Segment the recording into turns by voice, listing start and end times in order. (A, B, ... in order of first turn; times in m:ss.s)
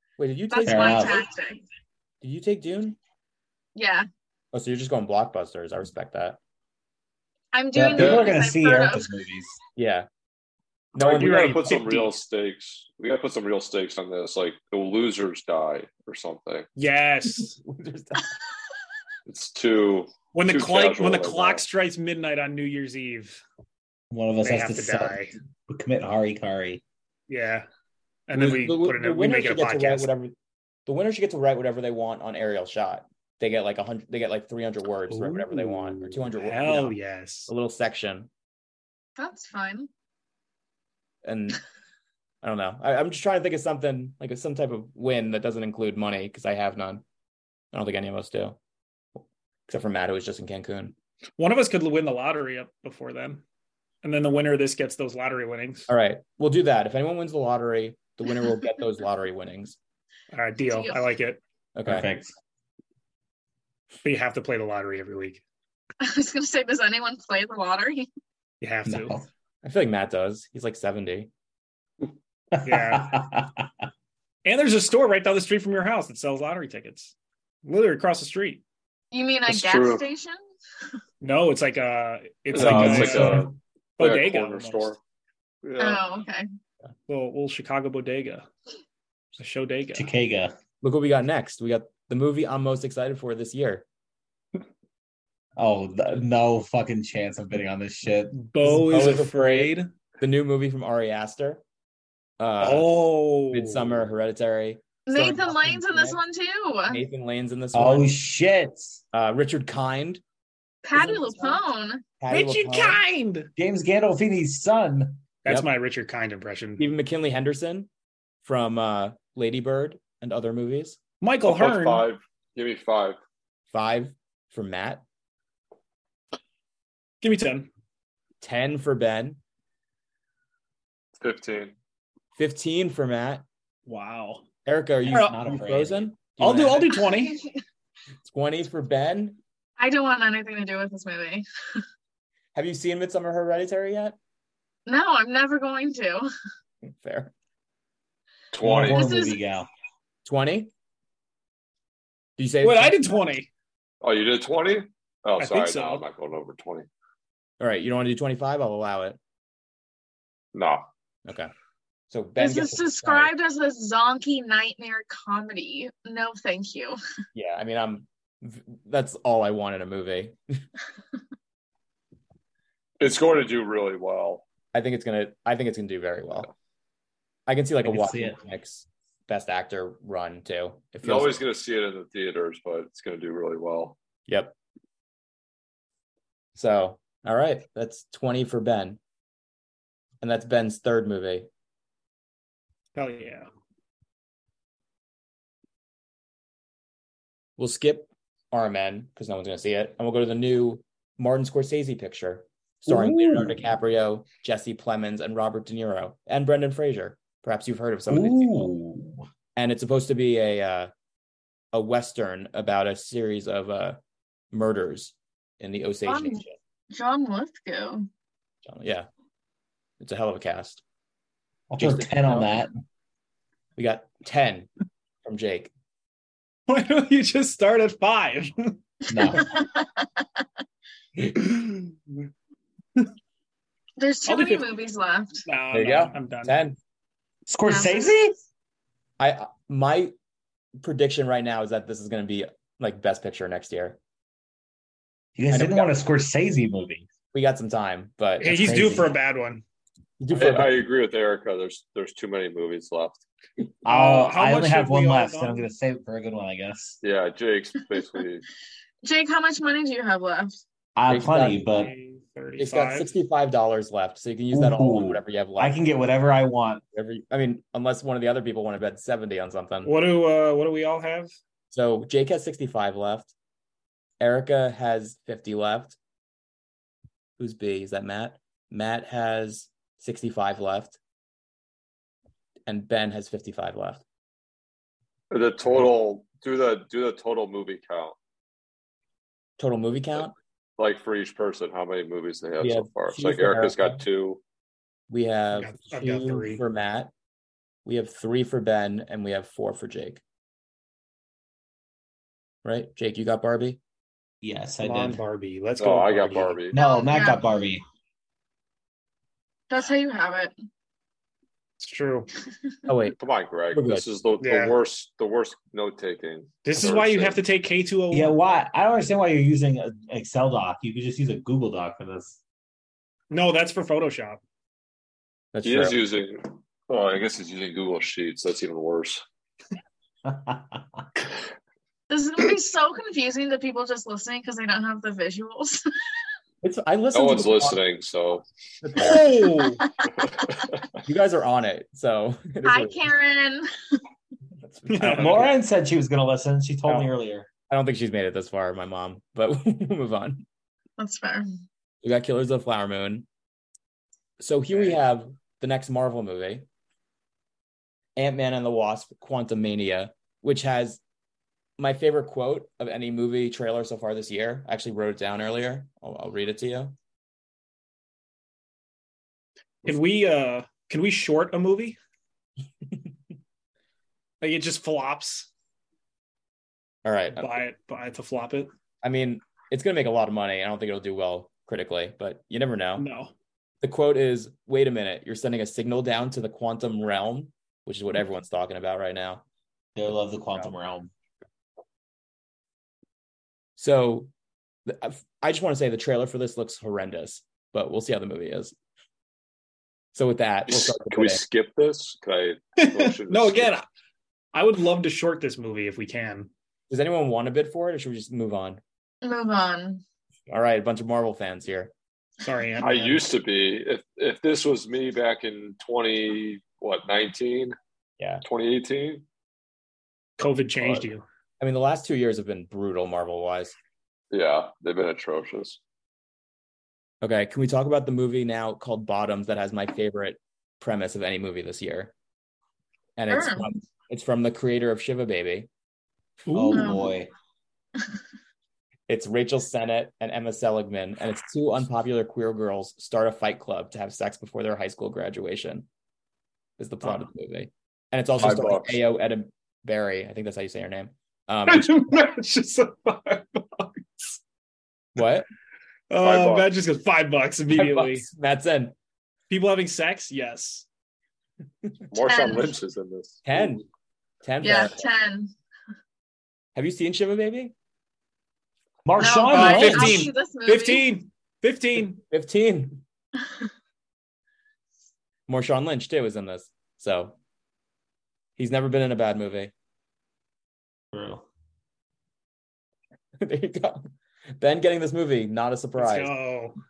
0:00.2-0:01.3 A
0:00.5-0:01.6 B
0:00.6-0:01.3 C
0:02.2-0:03.0 A
0:03.8-0:04.1 B
0:04.5-0:06.4 A
0:07.5-0:09.1 B
0:07.7-0:09.6 C
0:08.0-0:08.3 A
0:09.8-0:10.1 A
0:11.0-0:11.9 A
0:11.0-0:16.7 D
0:11.0-0:12.1 E
0:16.8-0:17.6 E
0:17.6-0:18.4 A
0:19.3-0:21.6 D
0:20.3-0:23.4 E
0:24.1-0:26.8 C
0:24.4-0:25.3 E
0:27.3-0:27.7 E
0:28.3-0:30.1 E
0:28.3-0:30.3 A
0:30.9-0:37.0 A
0:35.1-0:37.5 E
0:37.5-0:38.3 A
0:39.2-0:39.9 B
0:41.2-0:41.6 A
0:42.4-0:47.0 A
0:47.7-0:48.6 A
0:49.2-0:50.9 A
0:51.4-0:53.4 E
0:54.0-0:55.9 E
0:55.9-0:59.8 A
1:00.3-1:01.4 E
1:00.7-1:01.0 B
1:01.8-1:02.1 A
1:01.8-1:02.3 C
1:04.0-1:05.4 E
1:06.0-1:08.1 B
1:08.6-1:09.2 E
1:08.9-1:09.3 C
1:09.6-1:11.3 A
1:12.5-1:13.7 C
1:12.6-1:13.2 E
1:14.4-1:18.6 E
1:19.1-1:20.4 B
1:19.5-1:20.1 D
1:21.2-1:25.0 E
1:22.5-1:25.0 D
1:22.6-1:23.5 C
1:22.9-1:23.3 A
1:25.6-1:26.1 D
1:25.8-1:26.5 B
1:27.1-1:28.5 E
1:29.4-1:30.1 E
1:29.9-1:30.6 C
1:30.8-1:33.8 A
1:35.6-1:38.8 C
1:38.3-1:39.9 E
1:38.6-1:41.6 A
1:42.4-1:42.9 A
1:42.6-1:44.1 E
1:43.5-1:46.2 A
1:45.1-1:47.0 B
1:46.9-1:48.1 A
1:47.7-1:49.0 C
1:49.1-1:50.2 A
1:50.8-1:52.0 B
1:51.0-1:51.6 A
1:52.2-1:53.0 A
1:52.3-1:53.5 E
1:53.6-1:55.2 C
1:55.4-1:56.9 E
1:56.8-1:57.9 A
1:58.4-2:01.0 A
2:01.2-2:02.0 E
2:01.4-2:03.2 D
2:03.7-2:05.0 A
2:07.2-2:07.7 E
2:08.4-2:09.4 A
2:11.2-2:11.8 D
2:12.4-2:13.4 A
2:13.9-2:14.4 E
2:14.7-2:17.1 A
2:15.1-2:16.1 C
2:15.1-2:15.4 E
2:16.4-2:17.4 E
2:18.2-2:19.4 A
2:19.8-2:21.8 B
2:22.6-2:24.2 A
2:24.9-2:26.3 B
2:26.8-2:27.3 A
2:28.5-2:29.1 D
2:28.6-2:29.7 C
2:28.9-2:29.4 B
2:30.2-2:30.7 A
2:32.4-2:33.1 A
2:32.6-2:33.5 E
2:34.0-2:36.9 D
2:35.4-2:36.0 E
2:37.6-2:39.2 A
2:40.5-2:40.8 D
2:41.3-2:41.5 A
2:42.1-2:43.3 A
2:42.4-2:47.0 B
2:47.3-2:50.6 A
2:53.0-2:54.4 D
2:54.7-2:56.5 A
2:57.5-3:01.4 A
2:57.8-2:58.4 C
3:01.0-3:04.0 D
3:04.3-3:04.5 A
3:06.6-3:09.0 A
3:10.2-3:11.5 A
3:13.0-3:13.5 E
3:17.6-3:28.6 A
3:22.9-3:23.6 C
3:28.1-3:29.2 C
3:29.6-3:30.9 A
3:31.7-3:34.0 A
3:34.5-3:36.6 A
3:36.0-3:38.1 B
3:38.6-3:39.1 A
3:40.0-3:40.8 A
3:41.7-3:42.7 C
3:41.8-3:42.6 A
3:43.8-3:44.7 A
3:45.2-3:45.7 A
3:46.7-3:48.8 E
3:49.1-3:49.5 C
3:49.3-3:50.1 B
3:51.5-3:51.9 E
3:54.0-3:55.5 B
3:54.3-3:54.7 E
3:55.5-3:56.6 E
3:55.7-3:56.8 A
3:57.5-3:58.4 C
3:57.7-3:58.1 B
3:59.2-4:00.1 A
4:00.8-4:04.0 A
4:05.4-4:07.1 C
4:05.5-4:06.0 A
4:07.3-4:08.6 A
4:08.4-4:09.6 E
4:08.4-4:09.1 C
4:10.2-4:10.8 A
4:10.3-4:13.2 D
4:13.8-4:17.0 C
4:13.9-4:15.7 E
4:17.0-4:18.4 D
4:19.0-4:20.6 B
4:21.0-4:21.9 C
4:21.1-4:21.6 A
4:21.7-4:23.1 E
4:22.6-4:25.8 A
4:24.5-4:26.8 C
4:26.9-4:29.9 A
4:29.8-4:31.3 E
4:31.7-4:33.3 A
4:34.2-4:36.0 A
4:37.4-4:41.0 A
4:42.7-4:44.0 A
4:45.3-4:48.2 D
4:49.6-4:50.4 A
4:50.8-4:54.4 D
4:52.6-4:54.0 A
4:55.1-4:57.1 A
4:55.5-4:56.6 E
4:57.8-5:00.2 A
5:02.6-5:03.8 A
5:04.4-5:05.2 C
5:04.8-5:06.6 E
5:05.8-5:06.8 D
5:06.7-5:07.5 B
5:06.7-5:07.8 C
5:09.7-5:10.5 B
5:11.8-5:12.3 E
5:12.9-5:13.2 A
5:13.2-5:17.4 D
5:13.7-5:14.1 A
5:14.4-5:14.8 E
5:16.6-5:18.4 E
5:18.1-5:22.4 C
5:23.3-5:24.4 E
5:25.5-5:26.0 A
5:25.6-5:29.2 D
5:30.2-5:31.0 C
5:32.1-5:35.8 B
5:36.6-5:37.8 A
5:37.1-5:38.5 D
5:38.8-5:39.3 A
5:39.0-5:39.8 E
5:39.8-5:40.1 B
5:40.3-5:41.0 D
5:41.0-5:43.0 A
5:42.6-5:43.7 B
5:44.6-5:45.5 A
5:44.9-5:45.5 E
5:45.0-5:47.5 C
5:47.7-5:50.4 A
5:51.0-5:51.5 B
5:52.0-5:53.3 A
5:54.4-5:56.7 A
5:58.2-6:01.0 A
6:01.8-6:07.0 A
6:09.8-6:12.0 E
6:14.4-6:15.5 E
6:17.0-6:17.6 A
6:17.4-6:18.7 E
6:19.0-6:23.1 A
6:23.0-6:23.3 E
6:23.8-6:29.4 A
6:30.0-6:31.1 C
6:30.1-6:30.7 A
6:33.8-6:34.3 A
6:34.9-6:38.8 A
6:40.1-6:41.4 A
6:40.7-6:43.8 D
6:42.8-6:43.8 E
6:44.5-6:46.5 E
6:46.9-6:48.8 A
6:49.2-6:50.0 B
6:50.5-6:51.9 A
6:52.4-6:53.2 E
6:52.8-6:57.8 D
6:58.2-6:58.4 A
6:58.4-6:59.2 D
7:00.4-7:01.2 E
7:01.6-7:03.8 A
7:04.3-7:05.8 D
7:07.2-7:12.1 A
7:13.2-7:15.7 A
7:13.3-7:13.7 B
7:16.5-7:17.0 E
7:16.5-7:17.3 C
7:16.7-7:17.1 B
7:19.1-7:25.9 A
7:26.8-7:32.0 A
7:28.4-7:29.0 D
7:31.7-7:34.4 E
7:35.2-7:35.5 A
7:36.1-7:38.3 E
7:36.2-7:36.7 D
7:37.7-7:38.9 A
7:39.5-7:40.9 E
7:42.1-7:43.8 D
7:42.2-7:42.8 B
7:43.5-7:43.8 A
7:44.4-7:45.0 A
7:44.6-7:45.5 B
7:46.8-7:47.7 A
7:49.0-7:50.3 C
7:49.2-7:51.1 B
7:49.5-7:52.2 E
7:52.1-7:53.0 A
7:55.5-7:57.4 A
7:58.6-7:59.7 A
8:01.1-8:01.4 C
8:03.4-8:06.3 A
8:06.0-8:06.8 E